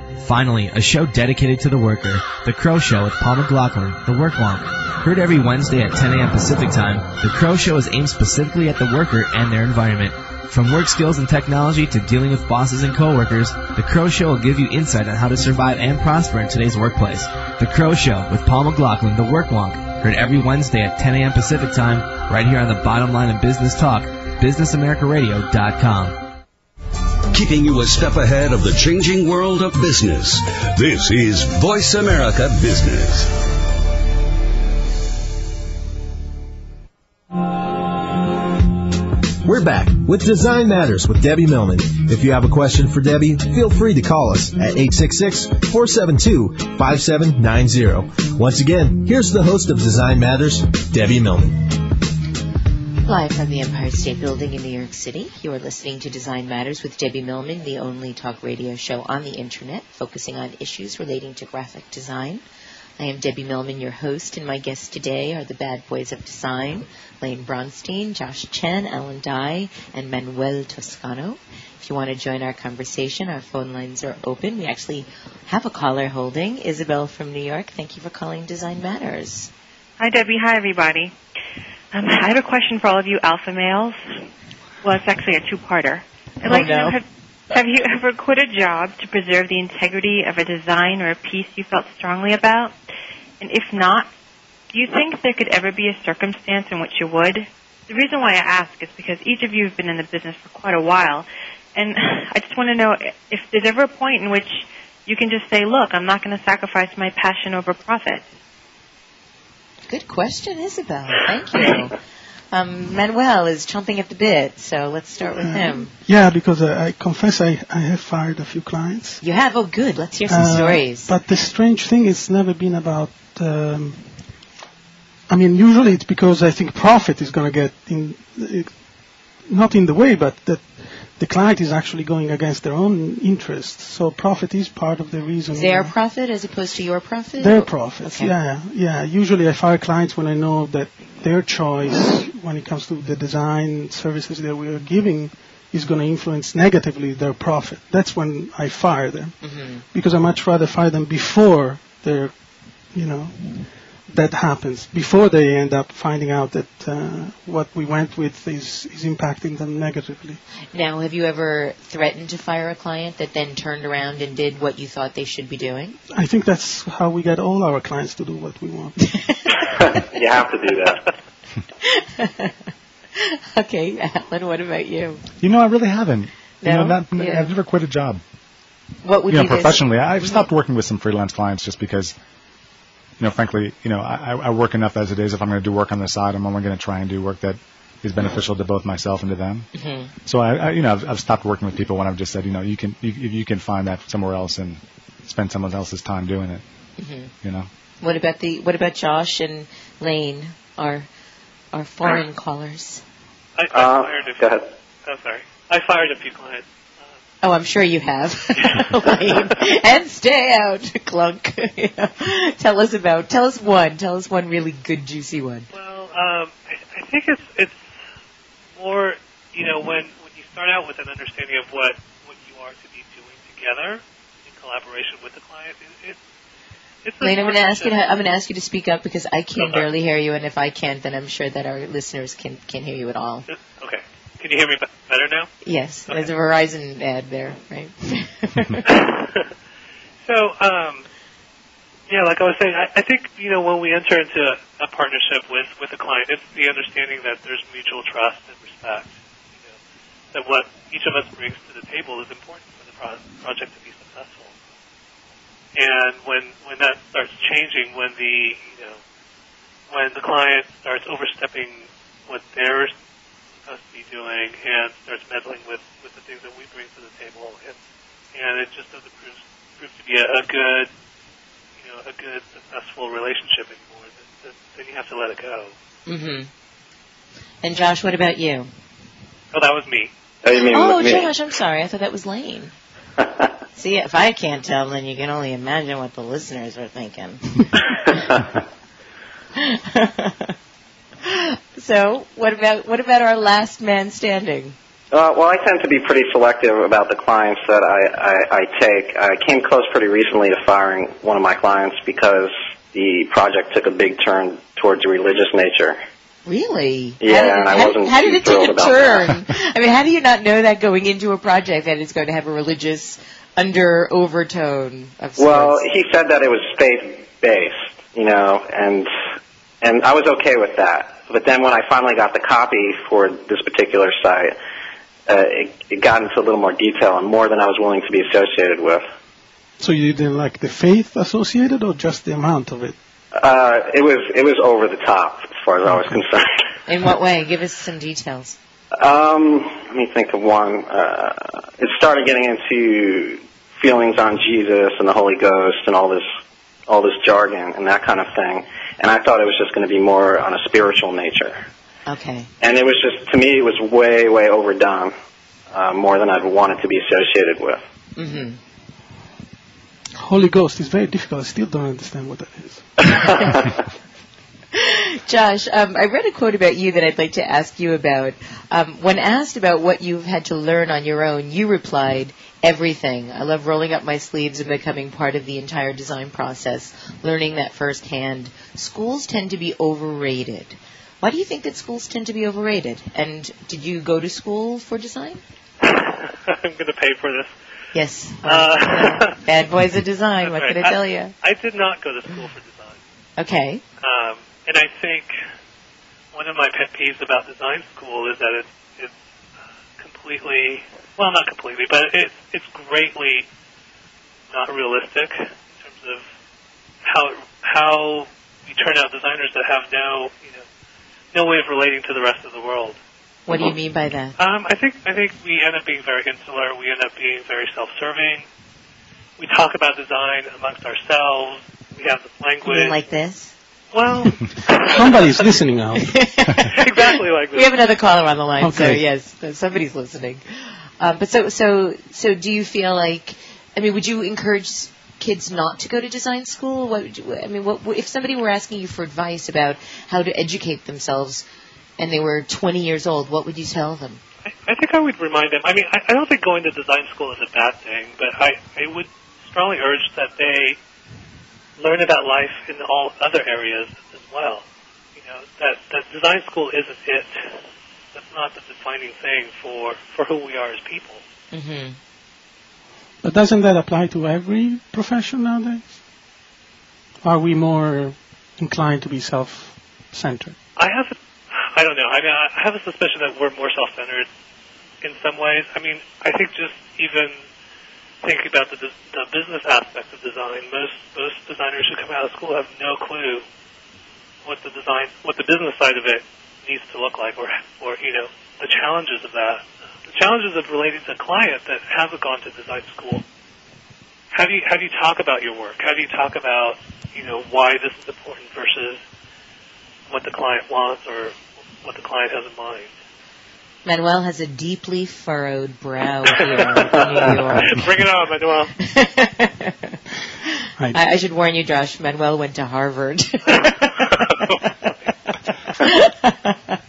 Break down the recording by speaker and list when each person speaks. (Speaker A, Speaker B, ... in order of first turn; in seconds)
Speaker A: 0.2-26.2
Speaker B: 27.3-33.3
Speaker C: 39.4-51.7
Speaker D: 53.0-62.4, 63.0-79.5, 86.4-87.0, 109.9-112.0, 112.5-115.9, 119.2-121.1, 135.5-138.3, 149.4-149.8, 160.7-166.0, 171.8-172.6, 173.2-175.2, 176.6-177.5, 179.0-180.4, 189.7-190.1, 197.0-197.3, 198.0-201.1, 201.7-203.0, 207.4-215.7, 227.2-233.5, 235.6-239.0, 276.1-276.5, 277.6-278.7, 280.5-282.7, 283.7-287.8, 289.6-290.5, 291.2-294.8, 306.4-315.8, 336.9-338.6, 352.1-352.5, 358.1-358.6, 364.7-385.4, 387.9-391.3, 393.4-393.8, 413.5-414.4, 422.6-423.5, 426.0-430.4, 431.0-441.4, 442.0-444.2, 461.5-462.0, 503.8-507.8, 508.8-509.9, 510.9-514.1, 515.8-516.8
Speaker E: 80.0-81.1, 81.9-84.0, 84.8-92.7, 93.4-94.1, 94.7-108.2
Speaker F: 115.4-119.2, 120.3-124.0, 125.3-128.7, 129.4-135.9, 137.4-149.4, 149.9-152.3, 152.9-160.4, 166.1-169.0, 329.8-332.9, 335.9-336.1, 360.2-362.9, 424.8-426.1, 428.6-429.0, 463.2-465.9, 467.2-470.6
Speaker G: 169.7-171.1, 203.7-204.6, 280.4-281.3, 283.2-283.5, 295.1-306.0, 307.2-309.3, 315.4-319.1, 319.8-324.5, 325.3-329.0, 333.3-336.6, 339.0-346.2, 346.9-351.6, 352.6-355.1, 355.7-357.8, 363.1-363.7
Speaker H: 175.4-178.2, 179.3-182.1, 183.2-189.7, 190.2-196.6, 197.4-197.7
Speaker I: 203.6-204.4, 205.1-206.6, 215.7-217.8, 218.8-226.2, 227.0-228.1, 233.5-235.5, 238.8-239.5, 240.2-241.1, 242.1-249.7, 250.3-254.5, 255.7-259.0, 259.9-262.9, 263.6-267.8, 268.3-270.9, 271.8-275.7, 279.5-280.1, 385.8-387.5, 388.4-389.4, 390.4-393.0, 394.0-395.3, 396.3-399.1, 400.0-403.4, 404.5-406.2, 407.0-410.6, 411.3-413.0, 414.4-418.4, 419.4-423.0, 423.9-425.6, 426.7-427.7, 444.4-450.8, 451.8-454.6, 455.1-457.6, 458.1-461.2, 470.8-474.3, 475.0-477.4, 478.2-483.4, 484.4-493.2, 494.3-499.0, 500.1-502.9, 506.6-508.7